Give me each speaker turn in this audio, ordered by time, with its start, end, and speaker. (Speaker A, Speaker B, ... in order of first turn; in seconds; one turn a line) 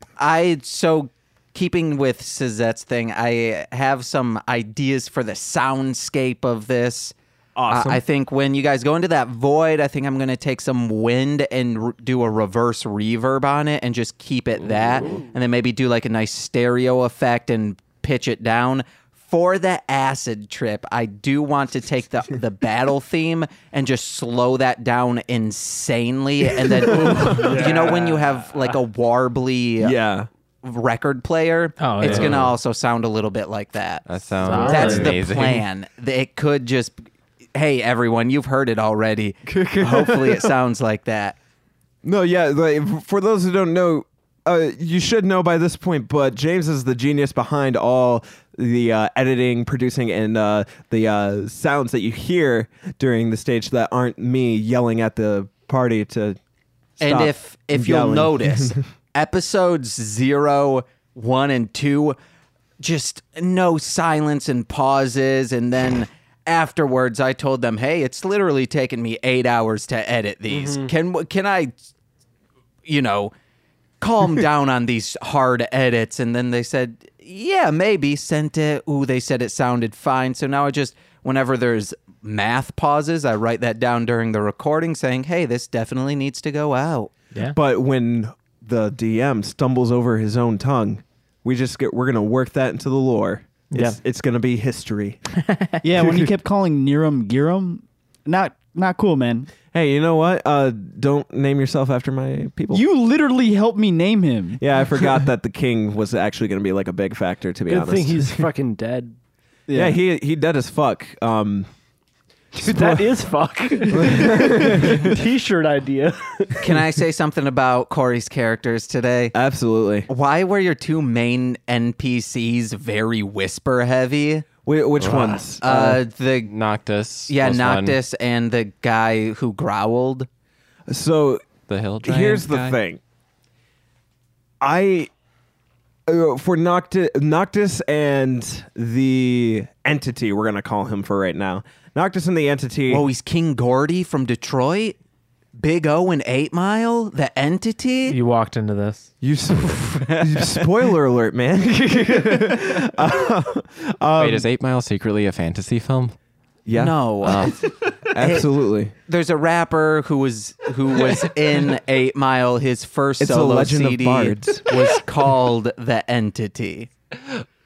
Speaker A: 0.2-7.2
Speaker B: 7.6-8.0
Speaker A: 7.7-30.0
Speaker B: 26.6-28.0
Speaker C: 27.4-28.2
Speaker B: 29.8-30.3
Speaker A: 30.6-36.9
Speaker D: 31.8-32.4
Speaker B: 32.1-32.5
Speaker E: 34.1-35.6
Speaker D: 34.4-35.2
Speaker A: 37.5-41.4
Speaker B: 39.5-40.5
Speaker B: 42.0-56.4
Speaker B: 57.0-58.8
Speaker A: 57.0-62.2
Speaker A: 62.8-71.7
Speaker C: 70.5-70.9
Speaker A: 72.9-73.3
Speaker A: 74.0-87.1
Speaker B: 87.5-95.2
Speaker D: 93.7-94.0
Speaker D: 95.4-95.8
Speaker F: 95.8-99.5
Speaker B: 96.0-96.3
Speaker B: 99.7-102.8
Speaker F: 102.7-104.6
Speaker B: 104.6-108.5
Speaker C: 107.7-109.2
Speaker F: 109.7-110.0
Speaker B: 109.7-111.7
Speaker B: 112.5-113.2
Speaker C: 112.5-116.8
Speaker B: 113.9-115.2
Speaker A: 116.6-119.3
Speaker B: 119.3-120.1
Speaker A: 120.1-124.5
Speaker B: 124.7-125.9
Speaker E: 125.0-128.0
Speaker A: 125.6-126.5
Speaker A: 127.3-130.3
Speaker B: 130.9-131.5
Speaker E: 131.7-132.8
Speaker B: 132.0-133.0
Speaker B: 134.6-135.1
Speaker B: 136.1-143.1
Speaker A: 142.9-145.0
Speaker A: 145.6-148.2
Speaker D: 148.1-149.1
Speaker B: 149.2-154.5
Speaker E: 154.2-156.2
Speaker B: 156.7-157.5
Speaker A: 156.7-158.5
Speaker E: 157.2-157.7
Speaker B: 158.1-158.9
Speaker A: 159.1-166.9
Speaker B: 163.2-164.8